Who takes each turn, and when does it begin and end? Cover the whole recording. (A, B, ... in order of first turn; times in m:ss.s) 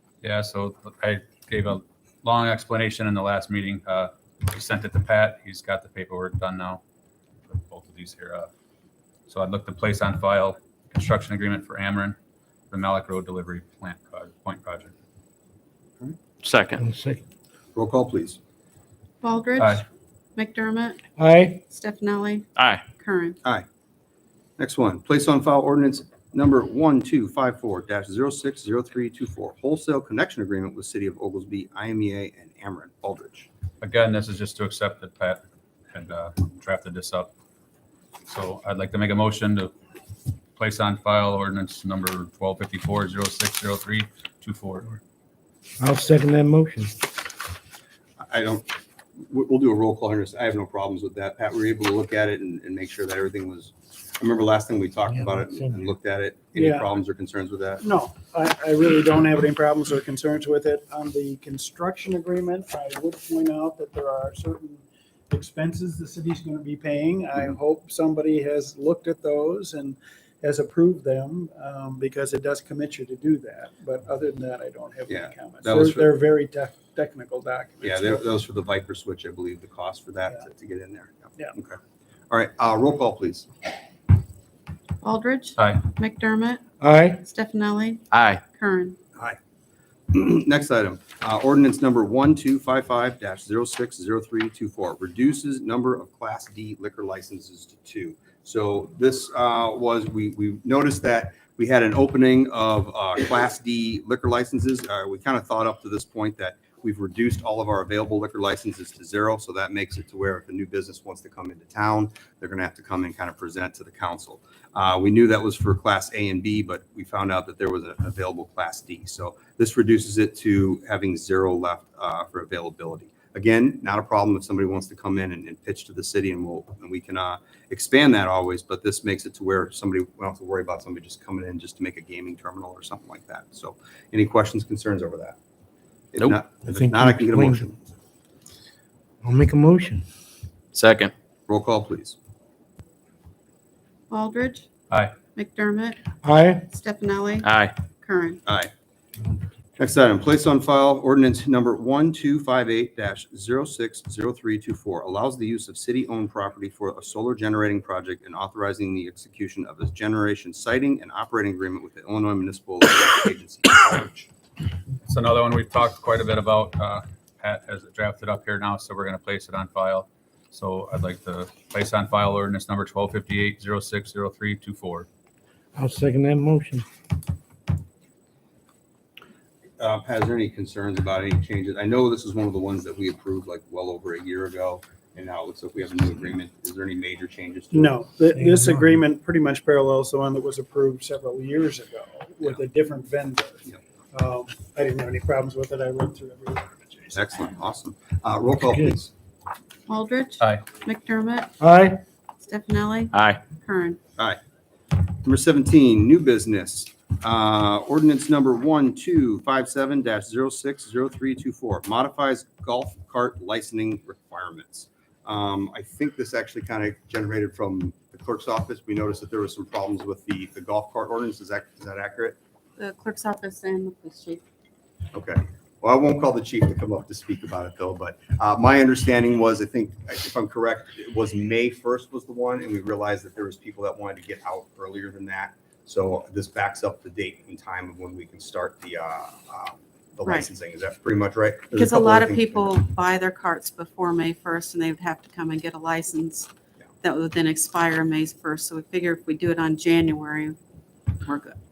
0:00.2-0:06.8 A
0:07.5-0:08.5 A
0:09.3-0:12.2 A
0:12.7-0:14.9 A
0:16.4-0:16.8 B
0:16.8-0:17.2 C
0:17.8-0:18.4 D
0:19.2-0:19.8 E
0:20.4-0:21.0 E
0:21.2-0:21.6 C
0:21.7-0:23.4 E
0:22.6-0:22.8 B
0:24.6-0:33.5 D
0:33.8-0:37.3 A
0:38.3-0:39.7 A
0:40.6-0:45.0 A
0:45.8-0:47.0 C
0:48.2-0:48.7 D
0:49.2-0:57.8 D
0:56.6-0:56.9 F
0:57.8-1:18.3 F
1:15.1-1:16.1 D
1:17.8-1:21.8 D
1:22.3-1:23.5 D
1:25.0-1:26.6 E
1:26.8-1:27.2 C
1:27.2-1:29.0 E
1:28.1-1:28.4 B
1:30.1-2:15.4 D
2:16.1-2:17.8 D
2:16.6-2:17.7 C
2:19.2-2:20.1 C
2:20.7-2:21.1 B
2:21.5-2:22.2 D
2:24.1-2:24.7 E
2:25.4-2:26.0 E
2:26.2-2:26.7 C
2:26.7-2:28.4 E
2:27.4-2:27.8 B
2:28.5-2:28.7 D
2:29.8-2:44.3 D
2:45.1-2:55.1 A
2:55.8-2:56.8 C
2:59.8-3:07.9 D
3:07.7-3:17.3 F
3:08.4-3:08.8 C
3:17.1-3:19.1 D
3:19.9-3:21.5 E
3:21.6-3:22.0 C
3:22.4-3:24.0 E
3:23.1-3:23.4 B
3:25.2-3:42.4 D
3:42.8-3:44.4 E
3:45.1-4:02.7 D
4:01.7-4:06.5 E
4:07.0-4:10.6 E
4:11.1-4:11.6 E